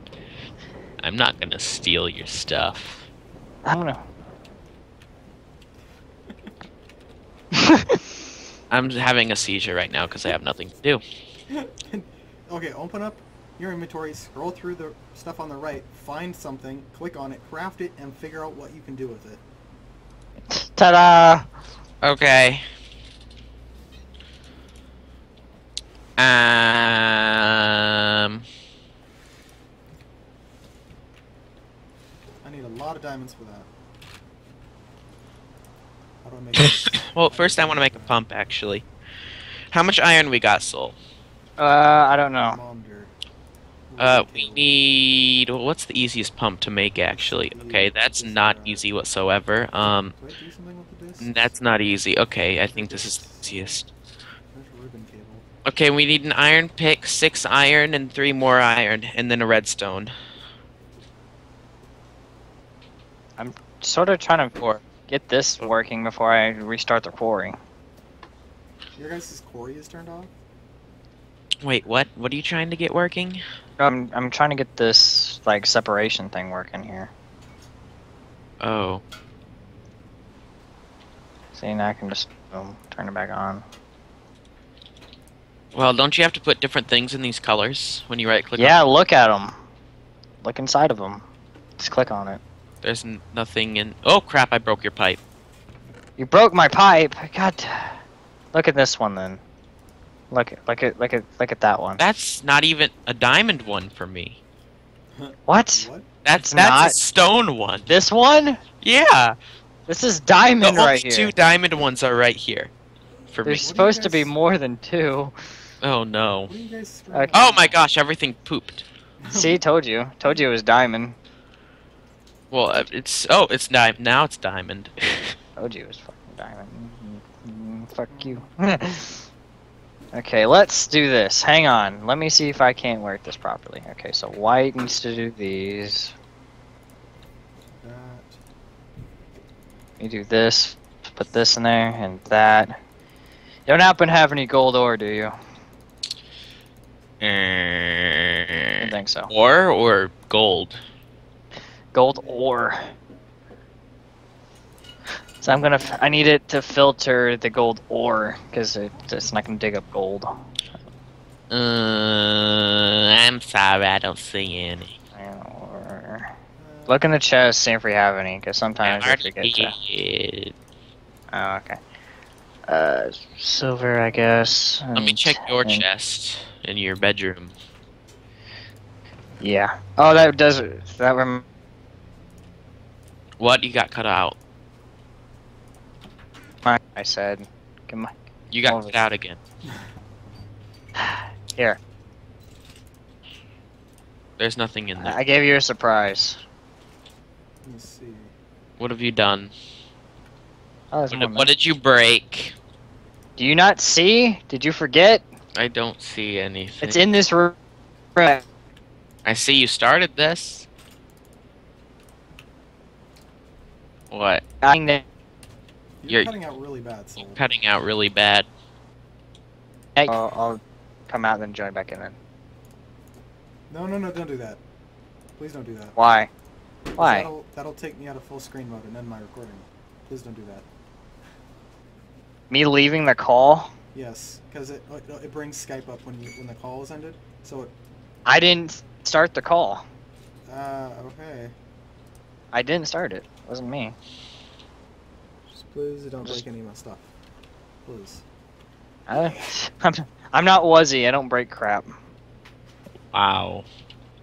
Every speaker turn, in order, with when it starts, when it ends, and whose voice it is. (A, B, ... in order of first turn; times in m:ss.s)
0:01.0-0:03.1 A
0:03.6-0:04.0 B
0:07.6-0:08.0 B
0:08.7-0:11.0 A
0:11.5-0:19.4 C
0:20.5-0:21.5 B
0:22.0-0:22.6 A
0:26.2-0:28.4 A
0:32.4-0:33.7 C
0:36.2-0:38.2 C
0:36.6-0:38.8 A
0:39.7-0:41.0 A
0:41.6-0:42.6 B
0:42.4-0:43.1 C
0:43.9-0:44.7 C
0:44.0-0:50.1 A
0:47.1-0:48.9 C
0:50.2-0:51.5 C
0:51.2-0:53.9 A
0:52.6-0:53.9 C
0:54.5-0:55.4 C
0:55.6-1:00.1 A
1:03.4-1:07.6 B
1:04.6-1:04.8 A
1:09.0-1:10.3 C
1:11.6-1:13.4 A
1:13.8-1:17.1 B
1:18.6-1:19.0 A
1:21.5-1:23.6 B
1:25.7-1:28.8 A
1:28.6-1:29.6 B
1:30.4-1:31.2 B
1:31.8-1:32.4 B
1:32.8-1:35.2 A
1:36.2-1:39.4 B
1:40.3-1:42.0 B
1:42.0-1:44.4 A
1:45.1-1:46.1 C
1:45.5-1:46.9 B
1:46.2-1:47.9 A
1:47.9-1:48.6 B
1:48.8-1:49.4 A
1:49.9-1:51.3 B
1:50.6-1:52.7 A
1:53.3-1:53.7 A
1:53.4-1:55.3 B
1:53.6-1:54.3 C
1:55.8-1:56.5 A
1:56.5-1:57.8 C
1:57.1-1:57.4 B
1:57.3-1:58.8 A
1:59.2-1:59.6 C
1:59.3-2:01.2 B
2:02.5-2:05.3 A
2:05.6-2:09.3 B
2:08.1-2:08.5 C
2:10.1-2:16.1 B
2:17.7-2:18.4 C
2:20.0-2:22.8 B
2:23.6-2:25.3 B
2:27.2-2:30.8 A
2:28.8-2:29.3 B
2:31.9-2:32.9 B
2:32.1-2:32.5 C
2:35.4-2:36.0 C
2:35.4-2:40.4 B
2:41.5-2:45.0 A
2:45.1-2:46.3 B
2:46.6-2:47.1 C
2:46.9-2:49.7 B
2:48.8-2:50.6 A
2:51.3-2:51.8 B
2:52.7-2:55.8 B
2:54.1-2:54.5 C
2:54.9-2:57.5 A
2:59.4-3:01.4 B
3:03.4-3:04.4 A
3:06.6-3:08.1 B
3:08.5-3:09.4 A
3:08.6-3:09.0 B
3:11.0-3:11.8 B
3:14.4-3:15.2 A
3:15.0-3:16.4 B
3:17.6-3:18.3 C
3:18.8-3:19.5 A
3:20.9-3:21.5 B
3:21.1-3:22.6 A
3:23.4-3:25.2 B
3:25.6-3:27.0 A
3:26.8-3:27.6 B
3:28.2-3:28.4 B
3:29.2-3:30.7 A
3:34.1-3:34.4 A
3:34.6-3:35.0 B
3:36.0-3:37.4 C
3:37.2-3:38.5 A
3:40.0-3:42.1 B
3:43.7-3:44.6 C
3:45.4-3:46.0 C
3:46.0-3:46.3 B
3:46.9-3:50.7 C
3:47.0-3:47.3 B
3:52.5-3:53.7 B
3:53.9-3:57.7 C
3:58.2-3:59.8 B
4:00.5-4:01.5 C
4:02.5-4:03.9 B
4:05.5-4:07.1 C
4:07.8-4:08.2 C
4:09.1-4:11.9 B
4:13.1-4:13.6 A